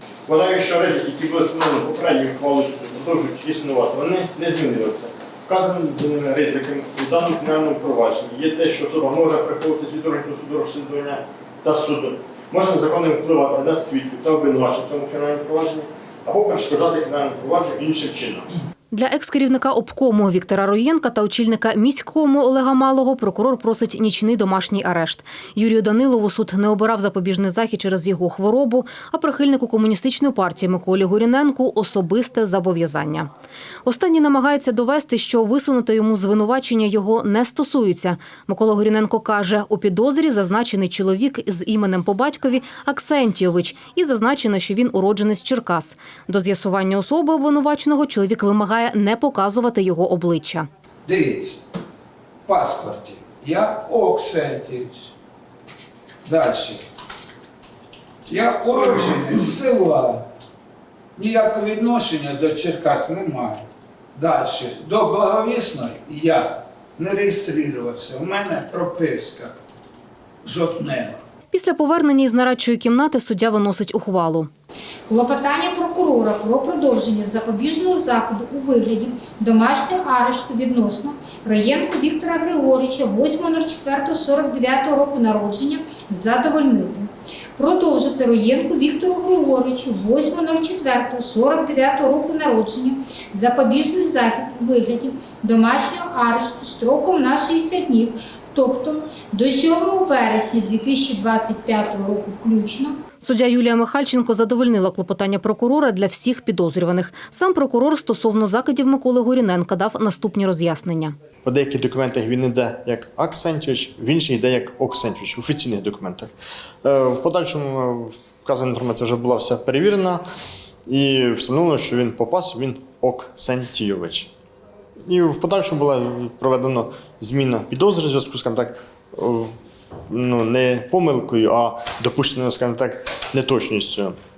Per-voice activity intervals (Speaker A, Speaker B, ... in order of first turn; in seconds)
Speaker A: 0.3-18.5, 111.5-116.3, 116.8-120.2, 120.9-124.3, 125.1-129.5, 130.1-134.2
Speaker B: 18.9-33.3, 33.9-50.7, 71.5-74.5, 103.2-111.2
Speaker C: 51.1-51.6, 52.5-55.1, 56.2-56.8, 58.3-60.3, 61.2-69.5, 70.4-71.2
Speaker D: 75.1-102.9